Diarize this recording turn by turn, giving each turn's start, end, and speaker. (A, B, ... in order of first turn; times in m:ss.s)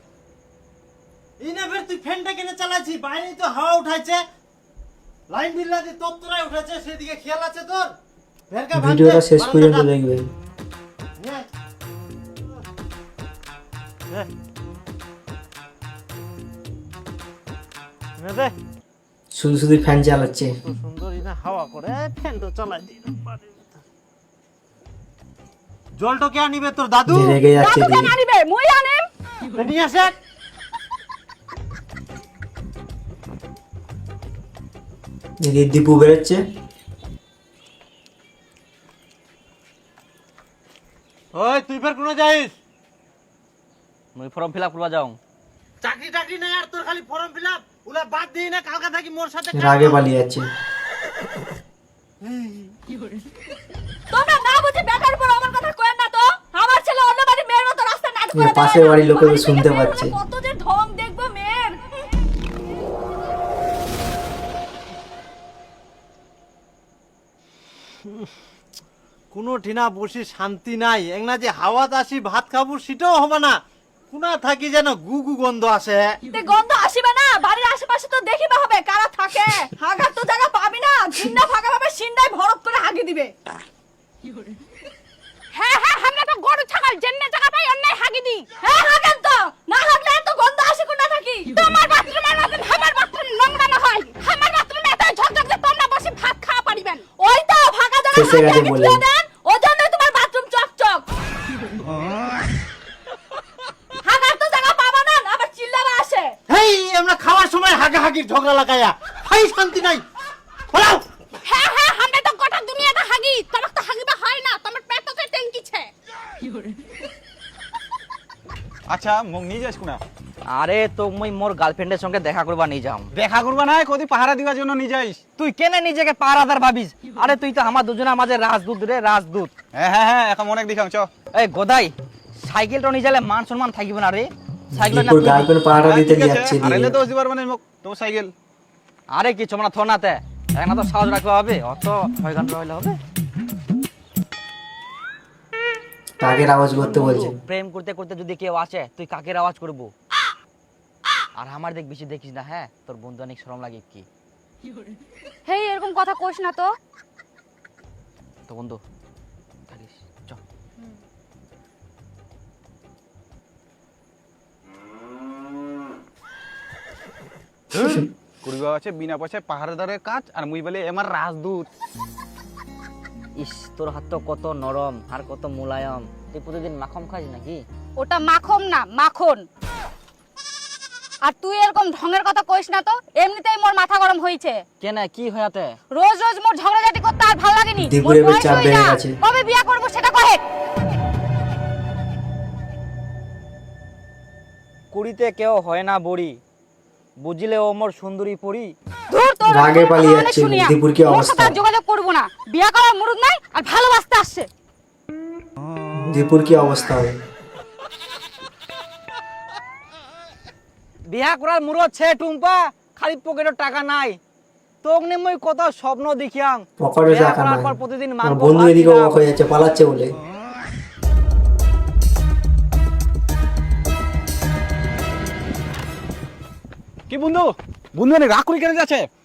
0:01.4-0:04.2 A
0:05.3-0:07.9 A
0:08.5-0:09.9 A
0:08.7-0:10.2 B
0:11.2-0:11.5 A
0:18.2-0:18.5 A
0:19.3-0:20.5 B
0:20.6-0:23.7 A
0:26.0-0:27.4 A
0:27.1-0:28.1 B
0:27.6-0:29.1 C
0:29.5-0:30.1 A
0:35.4-0:36.4 B
0:41.3-0:42.5 A
0:44.1-0:45.2 D
0:45.8-0:50.0 A
0:49.5-0:50.4 B
0:52.2-0:52.7 A
0:54.1-1:01.8 C
0:58.3-1:00.2 B
1:09.3-1:13.6 A
1:14.1-1:16.0 A
1:16.3-1:23.3 C
1:25.5-1:41.0 C
1:38.1-1:39.0 B
1:44.0-1:46.4 C
1:46.5-1:50.0 A
1:50.7-1:51.0 A
1:51.4-1:55.9 C
1:58.9-2:00.0 E
2:00.5-2:03.1 D
2:03.1-2:05.2 E
2:05.4-2:09.5 D
2:09.7-2:11.1 E
2:11.3-2:11.9 D
2:12.4-2:15.5 D
2:14.7-2:17.0 B
2:15.7-2:18.3 E
2:19.1-2:23.0 D
2:26.2-2:27.4 B
2:26.8-2:29.9 D
2:31.4-2:34.0 D
2:35.4-2:36.7 C
2:38.5-2:38.8 D
2:39.7-2:40.4 D
2:47.9-2:51.7 E
2:53.4-2:57.6 D
2:58.0-2:59.4 C
3:01.2-3:04.6 C
3:04.8-3:05.8 D
3:05.9-3:10.4 C
3:07.8-3:09.2 B
3:14.9-3:16.4 D
3:17.2-3:18.7 D
3:19.1-3:24.5 C
3:19.5-3:21.6 B
3:26.0-3:27.1 B
3:31.1-3:34.2 D
3:34.8-3:39.2 D
3:36.8-3:40.1 B
3:47.1-3:49.1 E